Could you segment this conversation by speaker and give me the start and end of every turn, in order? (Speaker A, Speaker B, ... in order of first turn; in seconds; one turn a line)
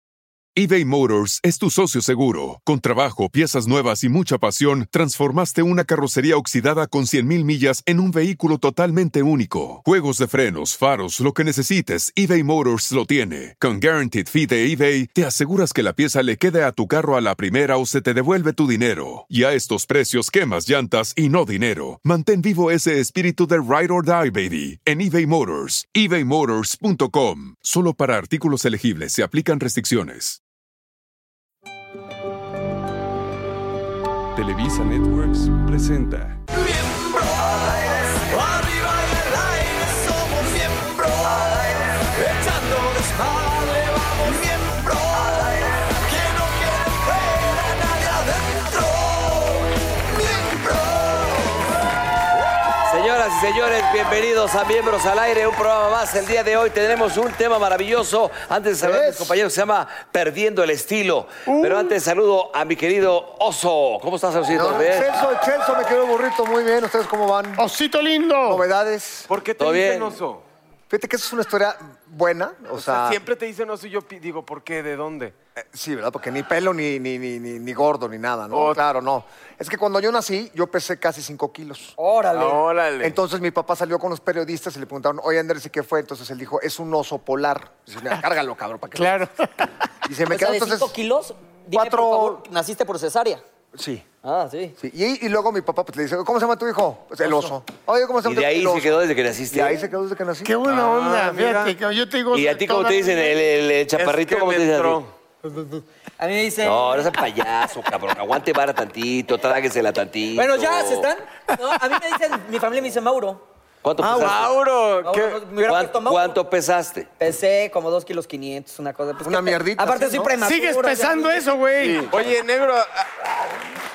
Speaker A: 0.6-30.4
Speaker A: 34.4-36.3
Speaker B: 36.5-49.6
Speaker B: 50.2-51.3
Speaker C: 52.9-65.1
Speaker D: 58.8-59.3
Speaker E: 61.5-62.0
Speaker D: 64.5-67.6
Speaker E: 67.6-68.6
Speaker D: 68.5-69.3
Speaker F: 69.3-70.4
Speaker C: 69.6-70.2
Speaker D: 70.9-73.2
Speaker F: 72.8-75.3
Speaker D: 75.6-82.0
Speaker F: 78.5-78.8
Speaker G: 82.0-82.6
Speaker F: 82.3-83.2
Speaker D: 83.0-89.2
Speaker E: 89.0-89.7
Speaker D: 90.0-91.0
Speaker G: 90.3-93.4
Speaker D: 91.7-92.4
Speaker D: 93.7-94.0
Speaker G: 94.2-94.8
Speaker D: 94.8-100.5
Speaker C: 98.2-99.8
Speaker E: 100.4-103.3
Speaker F: 100.7-101.7
Speaker C: 102.3-105.0
Speaker F: 104.0-105.1
Speaker G: 105.4-107.2
Speaker C: 106.6-111.0
Speaker G: 110.3-113.4
Speaker C: 113.8-114.5
Speaker D: 114.0-114.4
Speaker F: 114.2-115.4
Speaker G: 115.0-116.4
Speaker C: 115.7-117.1
Speaker G: 117.2-121.4
Speaker D: 119.2-120.3
Speaker E: 120.4-122.1
Speaker F: 121.8-123.1